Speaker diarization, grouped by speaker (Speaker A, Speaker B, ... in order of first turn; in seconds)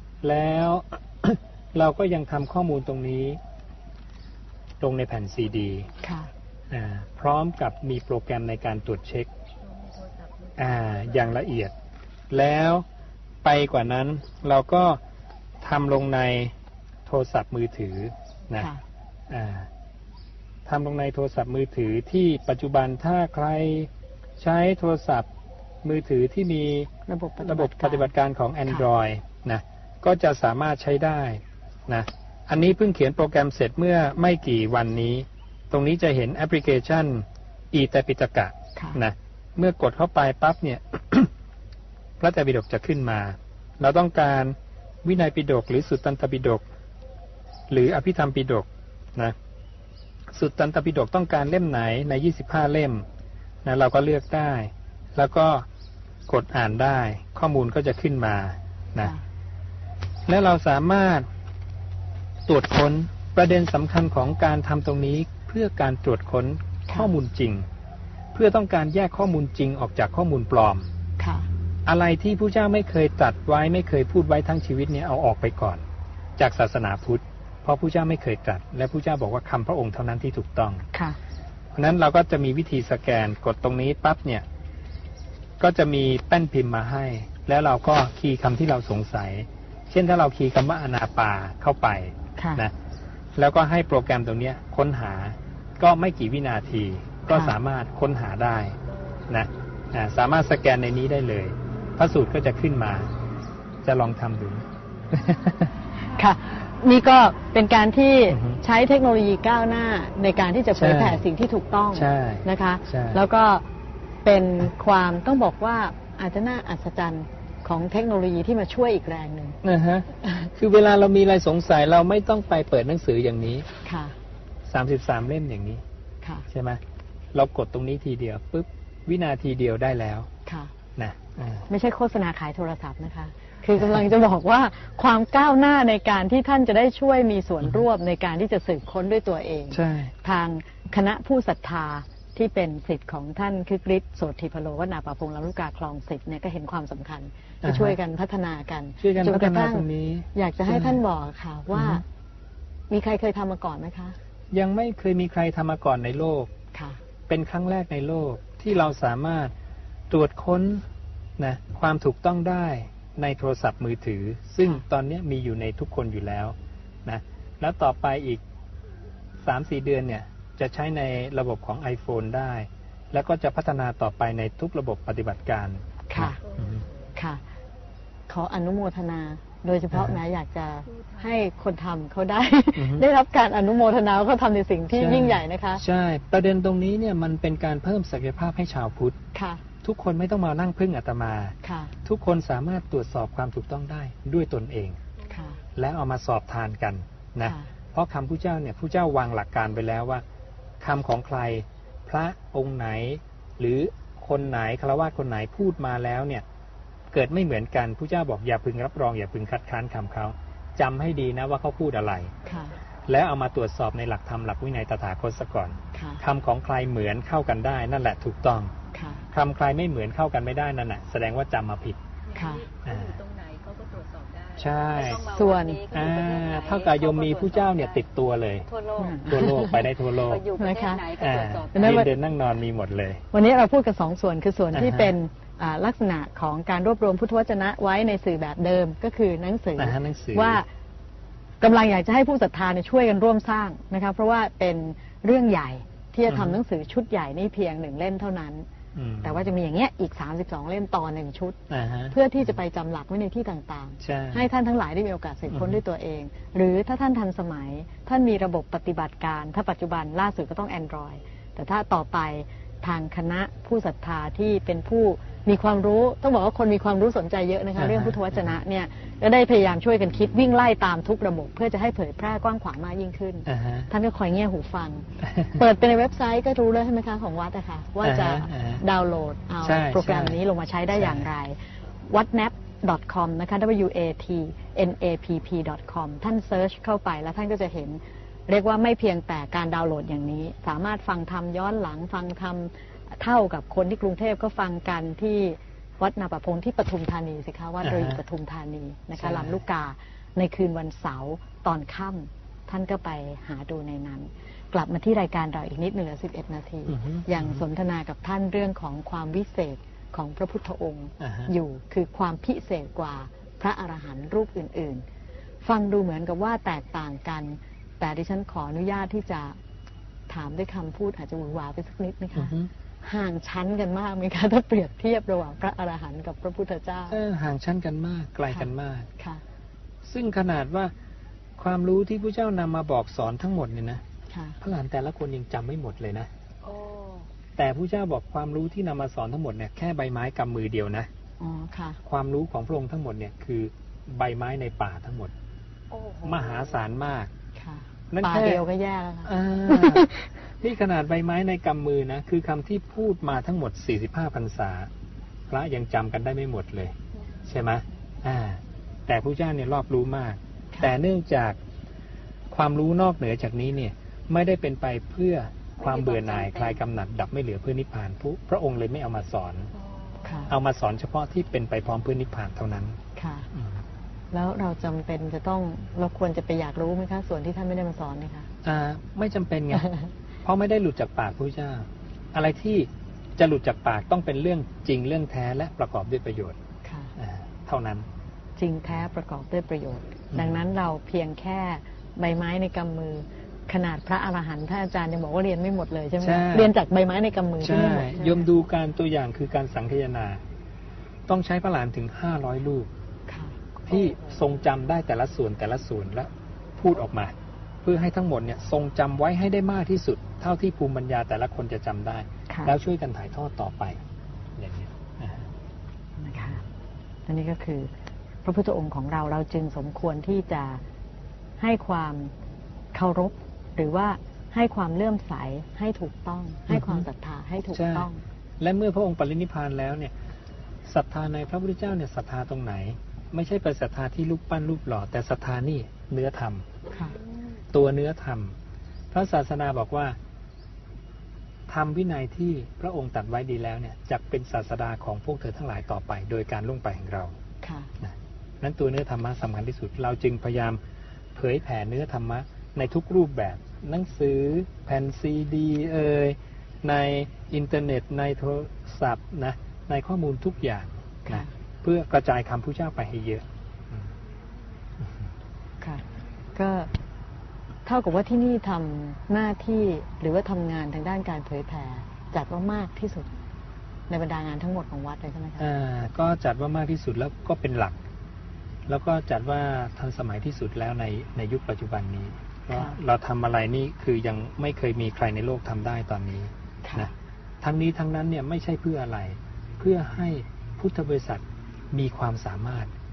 Speaker A: 0.2-3.4, 4.8-5.9, 6.7-9.3, 10.6-11.8, 12.3-12.9, 13.4-15.0, 15.6-16.6, 17.1-18.7, 19.3-19.7, 20.7-25.3, 25.8-26.9, 27.4-41.3, 42.2-46.6, 47.7-49.4, 50.3-53.1, 53.6-55.7, 56.3-59.1, 60.3-61.3, 62.5-67.7, 68.3-70.9, 71.9-75.9, 76.4-80.9, 81.8-84.5, 85.6-92.7, 93.4-98.8, 99.3-103.1, 103.8-105.7, 108.3-108.6, 110.8-111.2, 111.9-113.2, 119.6-123.7, 124.7-125.8, 126.5-126.8, 127.3-130.3, 131.0-131.7, 139.7-140.1, 147.6-148.0, 149.0-151.0, 151.7-152.0, 154.5-156.5, 157.3-159.5, 160.1-160.9, 161.4-168.4, 169.4-176.8, 179.9-180.2, 182.8-183.1, 184.9-189.2, 189.8-195.0, 195.8-200.2, 200.8-206.4, 207.1-212.3, 213.1-218.7, 219.3-222.0, 222.8-223.2, 224.6-225.2, 225.9-228.7, 229.3-230.5, 231.1-233.2, 234.7-235.2, 239.8-240.6, 246.3-246.6, 248.9-249.5, 251.7-252.2, 254.0-254.5, 255.5-255.8, 267.8-268.6, 273.5-273.9, 275.2-275.6, 278.0-278.8, 279.6-280.4, 280.9-281.3, 297.8-298.2, 299.2-299.6, 306.9-307.6, 311.2-311.5, 322.4-322.7, 327.1-329.1, 330.0-330.9, 331.6-334.0, 334.6-336.3, 337.6-341.1, 342.1-345.3, 346.2-347.3, 348.1-348.6, 349.2-354.9, 355.5-361.6, 362.5-369.7, 370.5-373.0, 373.5-373.8, 378.6-379.9, 380.4-386.6, 387.2-388.1, 390.3-390.7, 396.2-396.7, 397.6-400.4, 401.3-402.9, 403.9-414.0, 414.6-415.5, 426.7-427.1, 427.7-428.1, 428.6-430.1, 430.9-436.7, 437.7-438.6, 439.1-440.2, 441.7-447.4, 448.0-450.8, 451.3-464.1, 475.6-478.0, 478.9-492.9
Speaker B: 6.0-6.3, 18.6-18.8, 27.1-28.1, 71.2-71.5, 92.4-92.7, 97.3-97.5, 106.0-113.7, 114.2-119.6, 123.8-124.2, 126.2-126.5, 130.5-130.7, 131.7-152.0, 152.9-154.2, 156.7-157.0, 176.1-176.4, 177.2-177.4, 178.3-185.8, 189.3-189.6, 191.6-191.9, 195.3-195.6, 197.4-197.7, 212.5-212.8, 215.9-216.2, 218.9-219.2, 222.3-222.7, 225.2-225.8, 229.0-229.9, 230.5-231.1, 231.7-232.1, 233.3-240.7, 241.6-248.7, 249.2-251.6, 252.1-315.1, 315.6-319.6, 320.3-327.2, 328.5-329.4, 334.3-334.6, 341.4-342.0, 347.6-350.3, 370.2-370.5, 373.2-373.5, 374.3-378.5, 379.8-380.1, 386.9-387.1, 388.6-398.5, 403.3-404.1, 412.5-412.8, 416.2-416.6, 417.3-417.9, 418.4-420.8, 421.6-422.3, 422.9-428.2, 436.9-437.2, 447.6-447.9, 461.3-461.5, 466.6-466.9, 467.9-473.3, 474.1-475.7, 482.7-483.0, 486.8-487.1
Speaker C: 9.8-11.2, 176.4-177.2, 180.9-181.3, 222.3-228.0, 228.7-232.1, 336.6-337.3, 345.9-346.8, 365.8-366.8, 369.8-370.5, 436.9-437.6